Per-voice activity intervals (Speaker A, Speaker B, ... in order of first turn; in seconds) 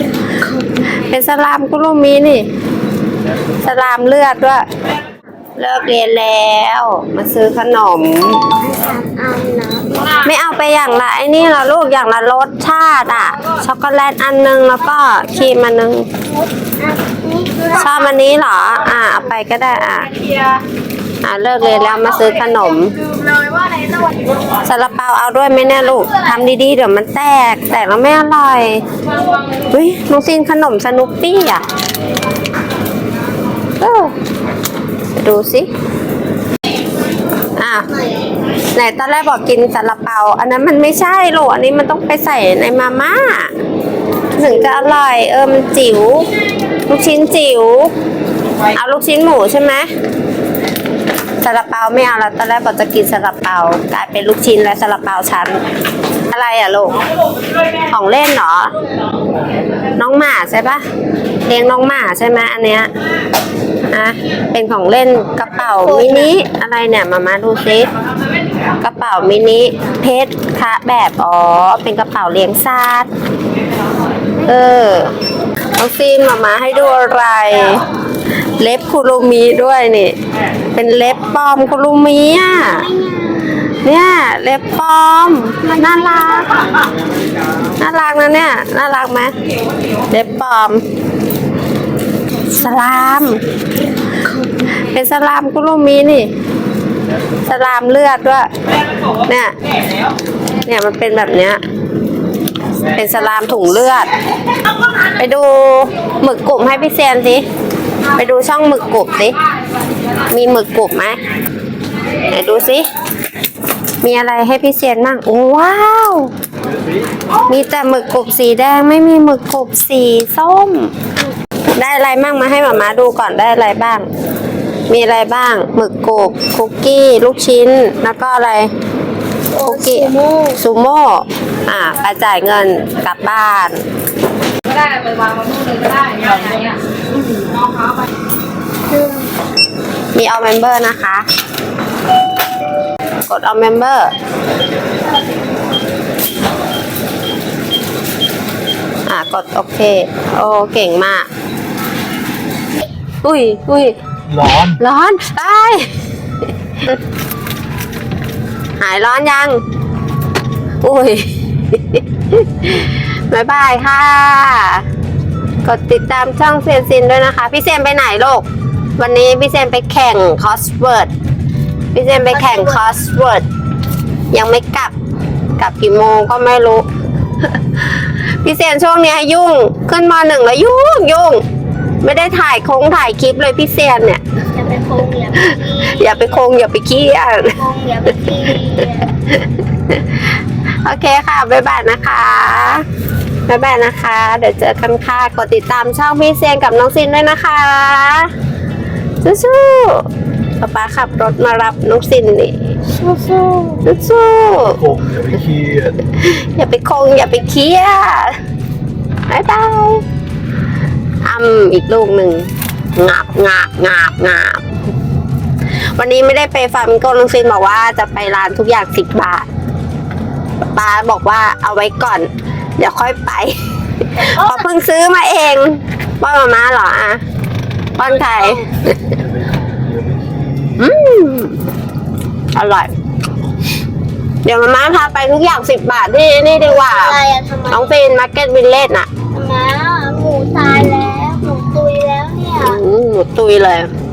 Speaker A: 0.9-2.5, 3.6-4.6, 5.6-8.4, 10.2-16.1, 17.7-20.1, 21.2-23.0, 24.6-28.8, 29.7-31.6, 33.8-34.1, 35.2-35.7, 37.6-37.9, 38.7-43.5, 44.4-46.3, 46.9-47.9, 48.7-49.9, 51.4-55.6, 56.3-57.0, 57.9-58.8, 60.0-60.8, 61.4-62.9, 63.9-67.9, 68.8-73.1, 74.5-75.1, 75.8-77.8, 78.6-80.2, 80.8-82.9, 83.8-86.5, 87.8-89.3, 90.1-90.8, 92.5-93.4, 94.8-96.3, 97.5-98.5, 99.3-99.5, 100.6-101.6, 102.9-104.1, 105.1-107.5, 108.2-109.4, 110.3-111.2, 112.3-112.8, 114.0-116.3, 117.5-120.9, 121.8-124.1, 124.9-128.7, 129.6-133.8, 140.1-141.3, 143.2-144.1, 149.1-151.3, 153.2-153.9, 154.8-155.9, 158.8-159.6, 160.8-164.8, 165.7-168.5, 169.0-171.1, 171.9-173.4, 174.3-174.9, 175.6-176.8, 177.8-181.4, 182.0-184.2, 185.4-187.6, 189.3-190.2, 190.8-192.8, 193.5-198.3, 199.2-200.1, 200.6-204.8, 206.1-208.4, 209.3-210.0, 211.2-214.8, 216.0-219.5, 220.7-223.6, 224.2-227.2, 228.0-229.2, 230.8-231.6, 232.6-232.9, 234.4-237.2, 237.7-239.1, 242.6-243.9
Speaker B: 8.6-10.2, 16.3-17.9, 65.6-66.3, 82.6-83.8, 129.5-130.6, 138.9-139.3, 172.3-172.8, 184.5-186.5, 187.5-189.1, 224.2-224.6, 228.3-228.6, 236.6-238.0, 239.3-242.8
Speaker C: 134.7-136.7
Speaker D: 154.3-154.8, 204.6-206.0, 229.1-230.9